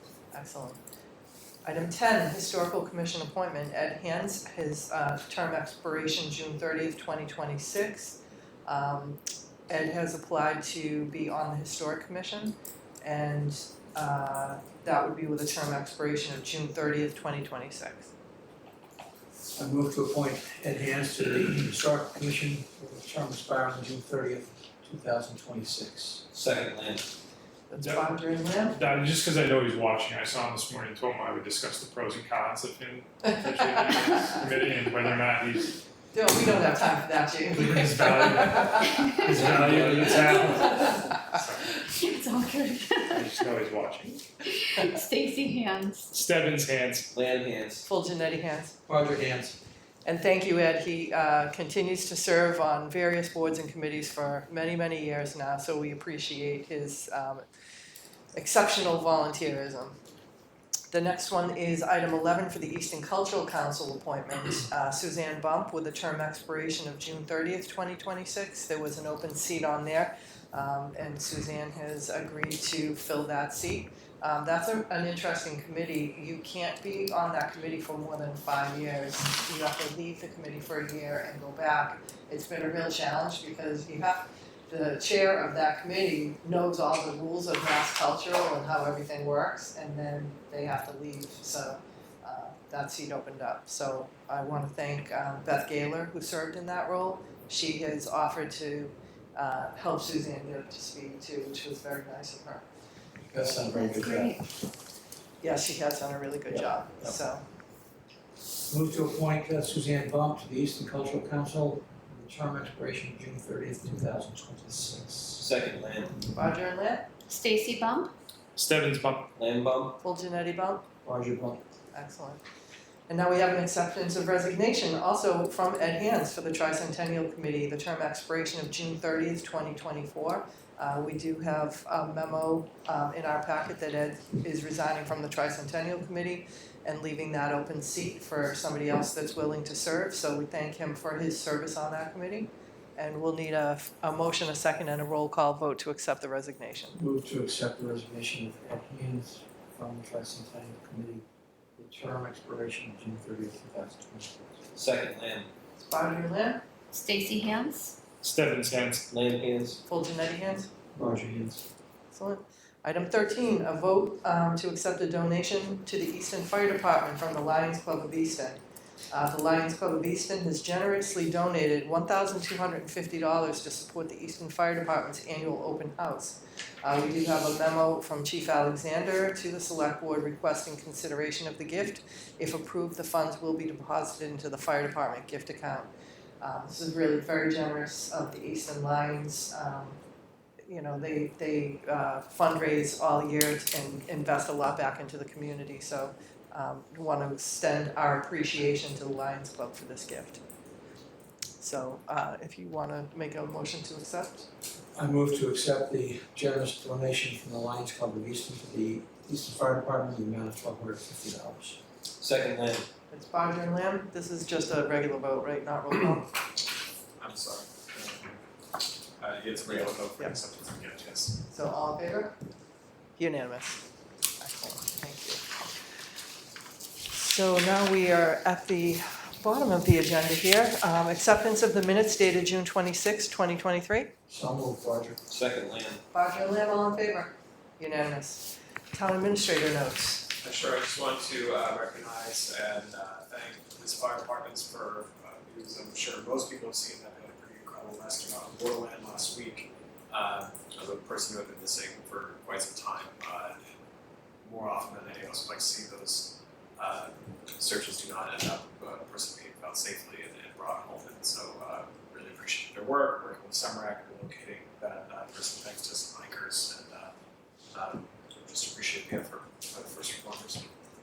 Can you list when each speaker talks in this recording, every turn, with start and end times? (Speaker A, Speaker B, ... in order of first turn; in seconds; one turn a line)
Speaker A: 0.3-0.8
Speaker A: 1.6-18.1
Speaker B: 19.6-26.2
Speaker C: 26.3-27.1
Speaker A: 27.7-28.8
Speaker D: 27.8-28.1
Speaker D: 28.6-35.8
Speaker A: 33.7-34.3
Speaker A: 36.1-38.7
Speaker D: 37.5-41.9
Speaker C: 39.5-40.3
Speaker E: 41.9-43.2
Speaker D: 43.1-44.2
Speaker E: 44.7-46.1
Speaker D: 46.1-47.1
Speaker C: 47.1-47.9
Speaker A: 47.9-48.8
Speaker B: 48.9-49.6
Speaker A: 50.0-57.5
Speaker A: 58.4-60.0
Speaker A: 60.9-102.7
Speaker B: 103.3-104.4
Speaker E: 103.7-104.4
Speaker A: 105.4-107.4
Speaker B: 106.5-107.2
Speaker B: 108.7-115.5
Speaker C: 115.4-116.2
Speaker A: 116.2-117.1
Speaker E: 117.3-118.1
Speaker D: 118.6-119.3
Speaker C: 119.4-120.0
Speaker A: 120.0-120.8
Speaker B: 121.0-121.6
Speaker A: 121.9-122.4
Speaker A: 123.1-147.0
Speaker B: 146.9-151.2
Speaker B: 151.8-154.5
Speaker C: 154.7-155.5
Speaker A: 155.8-156.6
Speaker E: 156.9-157.9
Speaker D: 158.2-159.1
Speaker C: 159.1-159.8
Speaker A: 159.9-160.7
Speaker B: 160.9-161.6
Speaker A: 162.1-168.6
Speaker A: 169.1-185.9
Speaker A: 186.4-190.0
Speaker A: 190.7-200.4
Speaker A: 201.6-204.5
Speaker B: 204.9-211.8
Speaker C: 212.2-212.9
Speaker A: 213.1-216.3
Speaker F: 217.2-218.4
Speaker F: 219.2-221.4
Speaker A: 221.5-222.3
Speaker A: 223.2-223.8
Speaker A: 224.4-225.6
Speaker A: 227.1-234.1
Speaker B: 234.3-235.2
Speaker C: 235.3-236.0
Speaker A: 236.1-240.3
Speaker F: 240.4-253.8
Speaker F: 254.4-267.1
Speaker F: 267.7-270.7